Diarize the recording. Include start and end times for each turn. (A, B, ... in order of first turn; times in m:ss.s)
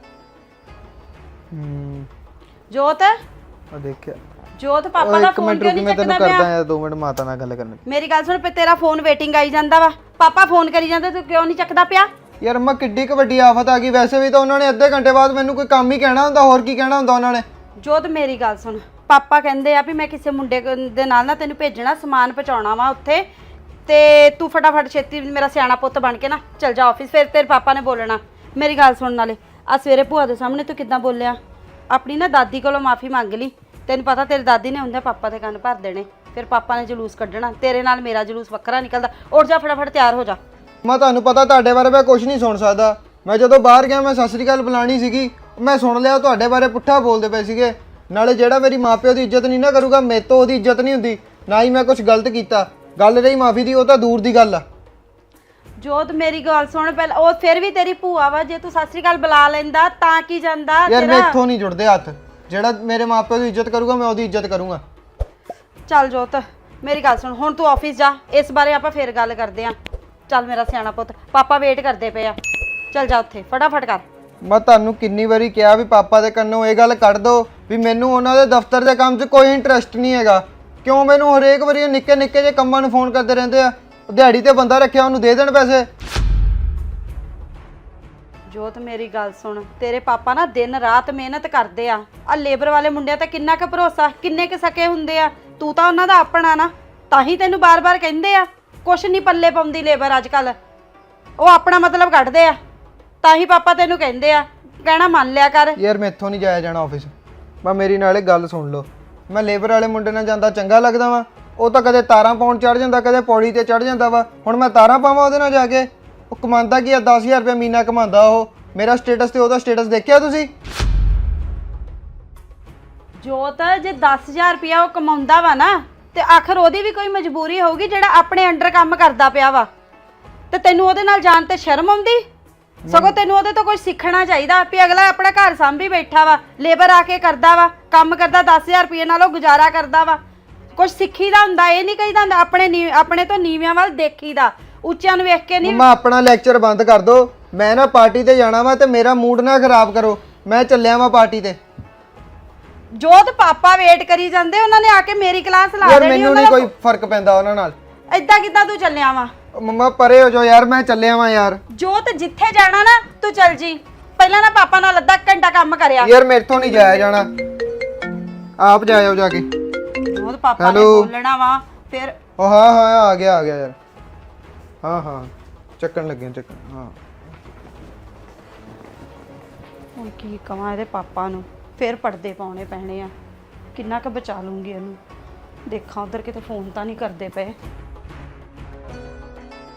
0:01.5-0:02.1 A
0:02.7-0:03.2 B
0:03.7-0:04.2 A
0:04.6-0:06.5 B
0:05.0-0:07.8 A
0:07.8-0:12.1 B
0:12.4-0:17.4 A
0:17.8-0:23.3 B
0:23.8-0:31.4 B
0:31.9-0:40.4 B
0:40.8-0:54.6 A
0:55.8-1:01.4 B
1:00.9-1:04.8 A
1:05.9-1:09.8 B
1:10.3-1:12.4 B
1:12.9-1:14.0 B
1:14.4-1:25.9 A
1:28.5-1:40.6 B
1:41.4-1:42.6 B
1:43.2-1:45.8 B
1:45.8-1:47.1 A
1:47.6-2:00.5 A
2:03.2-2:09.7 B
2:10.5-2:12.2 B
2:12.8-2:13.2 A
2:12.9-2:20.2 B
2:20.8-2:25.8 B
2:25.6-2:31.6 A
2:33.0-2:36.7 B
2:35.8-2:37.7 A
2:38.1-2:39.3 B
2:39.5-2:41.6 A
2:41.7-2:46.1 B
2:46.0-2:47.3 A
2:48.6-2:49.4 A
2:50.0-2:52.2 B
2:50.6-2:51.1 A
2:52.4-2:53.8 A
2:54.8-2:57.0 A
3:00.0-3:03.1 B
3:03.7-3:05.0 B
3:05.7-3:07.6 B